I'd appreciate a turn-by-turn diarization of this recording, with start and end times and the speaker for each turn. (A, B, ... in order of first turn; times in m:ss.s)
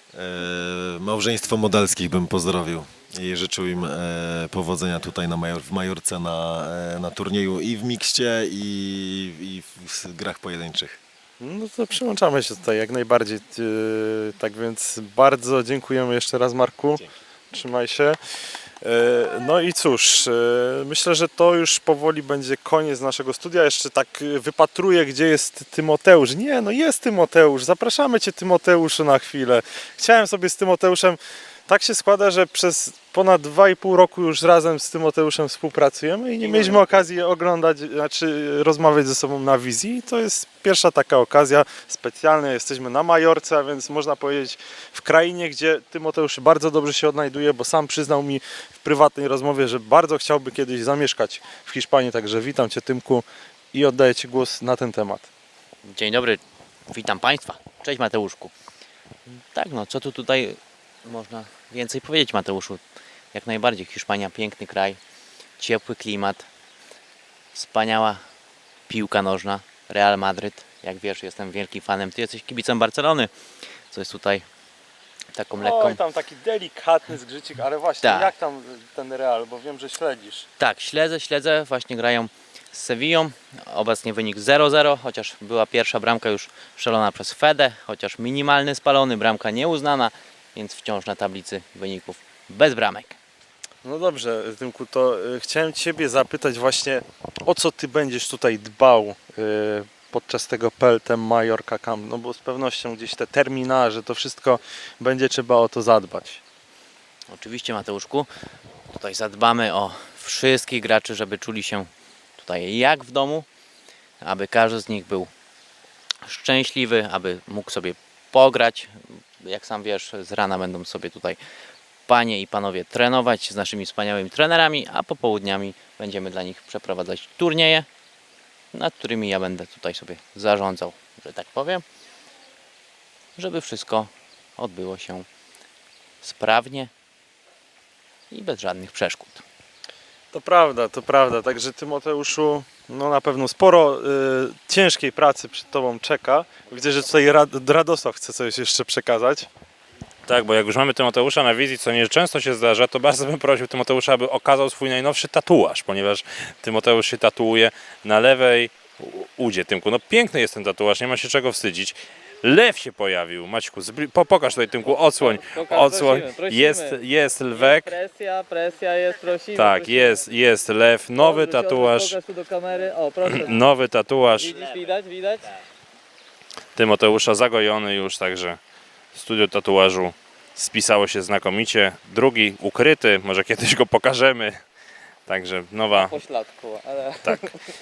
0:00.1-0:11.0 A
0:11.4-0:18.2 B
0:18.8-0:55.3 B
0:55.8-0:58.5 C
0:59.5-1:02.8 C
1:03.3-1:05.0 C
1:05.6-1:06.4 C
1:07.5-1:08.2 C
1:08.9-1:13.3 C
1:13.9-1:14.4 C
1:15.3-1:16.0 C
1:15.6-1:20.5 B
1:18.0-1:18.3 C
1:20.6-1:33.2 C
1:33.8-1:46.4 B
1:47.3-1:48.3 C
1:48.9-1:53.4 C
1:54.2-1:55.3 C
1:56.2-2:01.4 C
2:02.1-2:07.9 C
2:08.7-2:11.8 C
2:13.4-2:15.2 C
2:16.2-2:16.9 C
2:18.3-2:19.4 C
2:20.3-2:29.5 B
2:30.2-2:48.0 D
2:44.8-2:47.0 E
2:47.5-2:50.3 E
2:49.5-2:52.2 D
2:51.2-2:53.6 E
2:53.2-2:54.6 D
2:54.4-2:55.5 E
2:56.8-2:58.6 D
2:59.1-3:04.6 D
3:05.3-3:06.3 D
3:05.9-3:07.5 E
3:07.2-3:07.5 D